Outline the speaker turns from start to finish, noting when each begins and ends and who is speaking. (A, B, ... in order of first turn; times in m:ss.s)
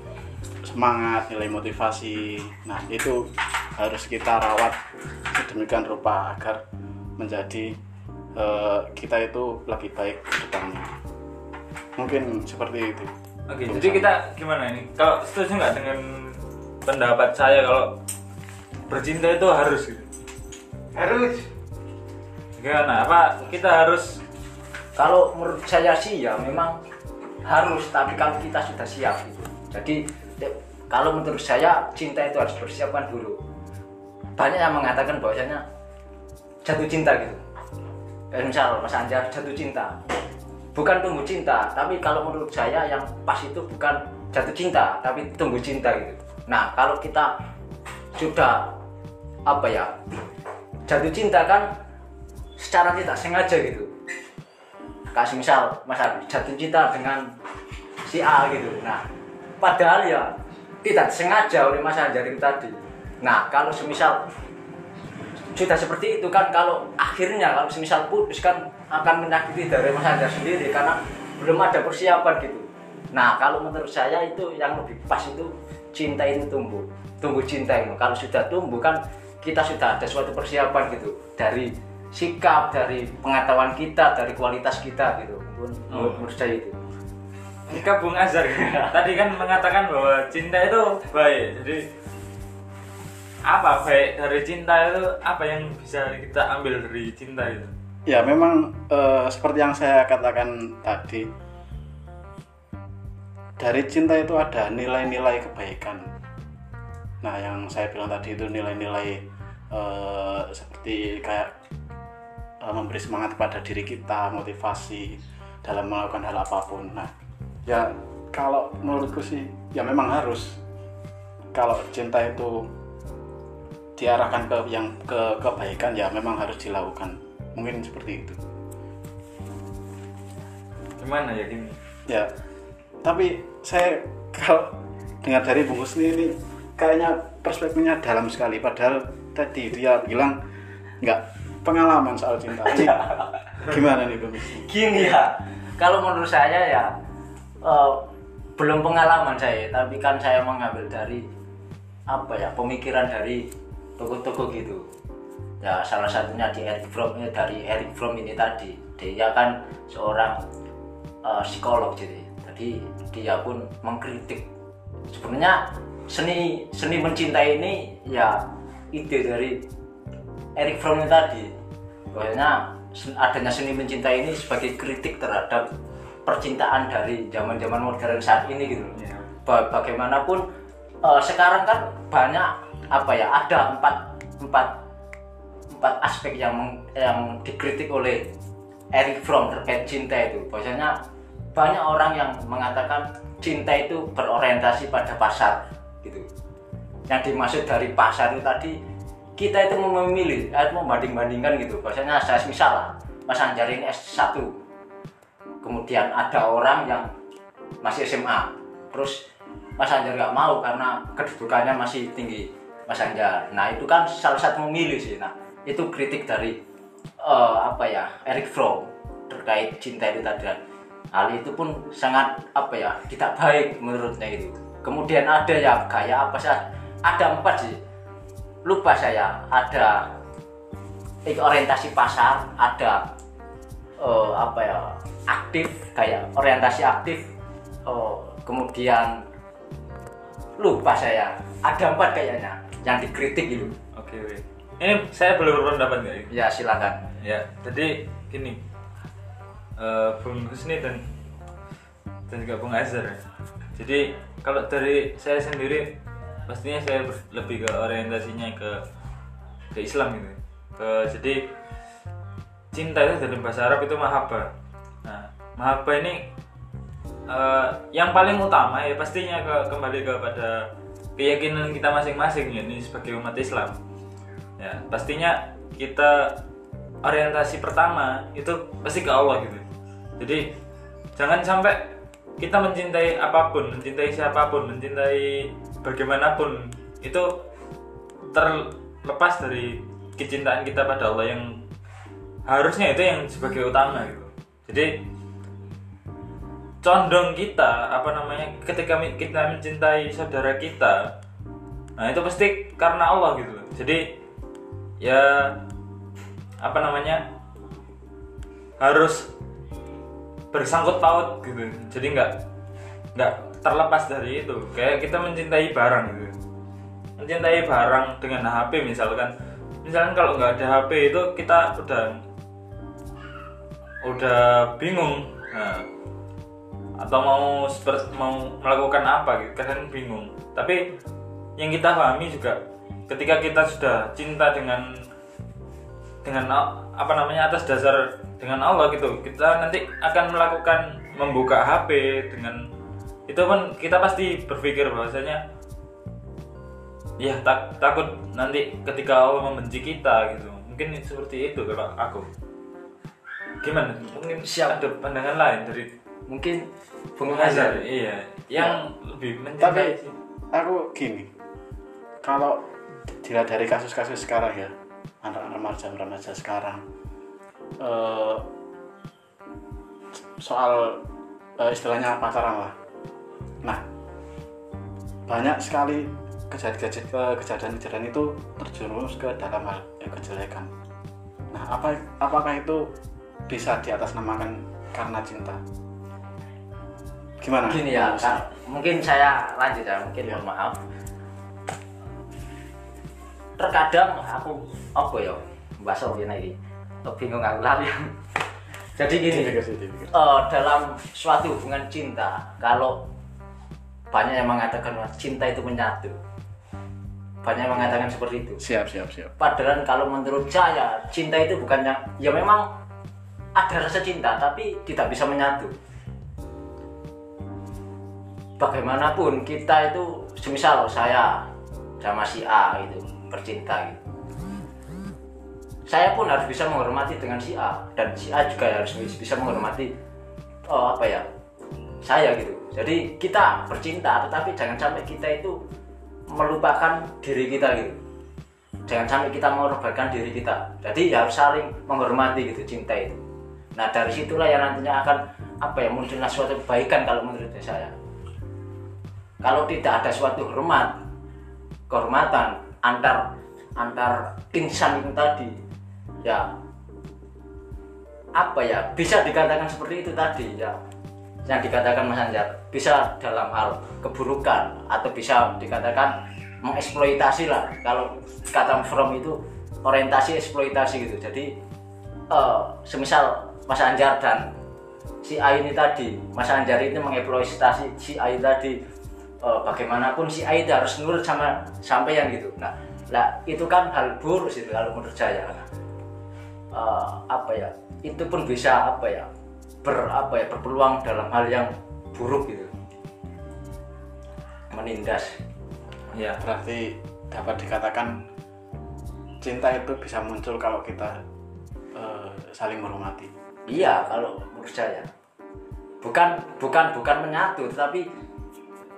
0:00.6-0:04.8 A
0:05.3-0:06.6 A
0:07.2-0:07.8 A
0:08.4-0:10.9 A
0:12.0-0:13.1 A
0:13.5-0:18.0 B
0:13.7-0:14.1 A
0:18.9-0:20.1 B
0:20.9-0:21.4 C
0:22.6-0:24.2 B
0:25.0-0:26.8 C
0:27.4-0:33.4 C
0:34.4-0:35.6 C
0:36.6-0:37.4 C
0:38.3-0:39.9 C
0:40.8-0:47.3 C
0:48.1-0:48.7 C
0:49.5-0:50.0 C
0:50.9-0:51.7 C
0:52.6-0:53.9 C
0:55.1-0:57.2 C
0:58.0-0:59.0 C
0:59.6-1:00.3 C
1:00.8-1:04.2 C
1:05.5-1:26.8 C
1:25.9-1:26.2 B
1:27.7-1:31.8 B
1:28.7-1:28.9 C
1:33.5-1:37.7 B
1:38.1-1:41.3 A
1:43.6-1:46.1 A
1:47.2-1:51.5 A
1:52.6-1:57.1 A
1:57.6-2:00.6 A
2:01.5-2:02.7 A
2:04.0-2:08.4 A
2:11.0-2:11.8 B
2:13.0-2:20.4 A
2:21.0-2:23.0 A
2:22.7-2:23.2 C
2:23.6-2:24.7 A
2:24.6-2:26.9 C
2:27.6-2:31.2 C
2:32.1-2:33.4 C
2:34.0-2:34.8 C
2:35.6-2:40.4 C
2:41.2-2:44.4 C
2:45.1-2:48.4 C
2:48.9-2:49.6 C
2:50.6-2:51.5 C
2:52.1-2:55.6 C
2:56.2-3:00.4 C
2:59.0-2:59.3 B
3:01.0-3:04.8 C
3:05.7-3:08.3 C
3:08.9-3:11.0 C
3:11.6-3:16.3 C
3:17.1-3:18.8 C
3:19.4-3:24.5 C
3:25.6-3:27.1 C
3:27.8-3:29.2 C
3:29.8-3:36.6 C
3:37.2-3:40.6 C
3:41.1-3:47.8 C
3:48.6-3:50.1 C
3:51.2-3:53.0 C
3:54.0-3:57.2 C
3:57.9-3:59.2 C
4:00.6-4:03.7 C
4:03.6-4:06.3 B
4:06.3-4:07.0 C
4:07.2-4:08.6 B
4:09.8-4:11.0 B
4:12.3-4:13.2 B
4:13.8-4:15.9 B
4:16.5-4:18.8 B
4:19.7-4:21.4 B
4:22.7-4:24.5 B
4:25.0-4:26.3 B
4:27.3-4:30.6 B
4:31.2-4:33.8 B
4:34.6-4:36.4 B
4:37.0-4:39.6 B
4:40.2-4:40.5 B
4:41.2-4:47.3 B
4:48.3-4:51.6 B
4:52.4-4:54.9 B
4:56.8-5:01.0 B
5:02.0-5:04.0 B
5:05.0-5:05.6 B
5:06.6-5:07.2 B
5:08.8-5:09.3 B
5:10.5-5:12.3 B
5:13.1-5:16.3 B
5:17.2-5:19.3 B
5:19.8-5:22.2 B
5:24.0-5:25.9 B
5:27.0-5:30.8 B
5:31.6-5:34.9 B
5:36.2-5:42.6 B
5:43.3-5:45.4 B
5:47.2-5:52.3 B
5:53.6-5:55.9 B
5:54.4-5:54.8 C
5:56.3-5:56.6 C
5:57.2-5:57.9 C
5:57.3-6:00.1 B
5:59.6-6:00.0 A
6:00.5-6:01.3 A
6:02.2-6:02.6 A
6:03.2-6:06.8 A
6:07.8-6:08.5 A
6:10.4-6:11.0 A
6:11.6-6:12.8 A
6:15.3-6:20.7 A
6:21.5-6:22.9 A
6:23.5-6:25.6 A
6:27.4-6:28.4 A
6:27.7-6:30.8 C
6:33.6-6:38.0 C
6:39.0-6:39.6 C
6:39.3-6:40.1 A
6:40.1-6:43.0 C
6:44.1-6:46.1 C
6:47.4-6:48.6 C
6:48.6-6:49.3 A
6:49.4-6:52.7 C
6:53.6-6:55.7 C
6:58.6-7:01.4 C
7:02.0-7:04.0 C
7:05.9-7:09.9 C
7:10.7-7:11.2 C
7:12.0-7:15.6 C
7:16.3-7:18.0 C
7:18.9-7:23.2 C
7:23.8-7:27.9 C
7:29.4-7:30.9 C
7:31.9-7:33.2 C
7:33.8-7:35.5 C
7:36.2-7:36.5 C
7:38.4-7:40.8 C
7:41.5-7:51.5 C
7:52.3-7:54.4 C
7:55.2-7:58.8 C
7:59.4-8:05.7 C
8:06.7-8:09.3 C
8:09.8-8:12.7 C
8:14.7-8:15.3 C
8:16.1-8:16.4 B
8:16.4-8:18.2 A
8:19.4-8:21.1 A
8:21.9-8:23.3 A
8:23.7-8:25.1 C
8:26.0-8:28.0 C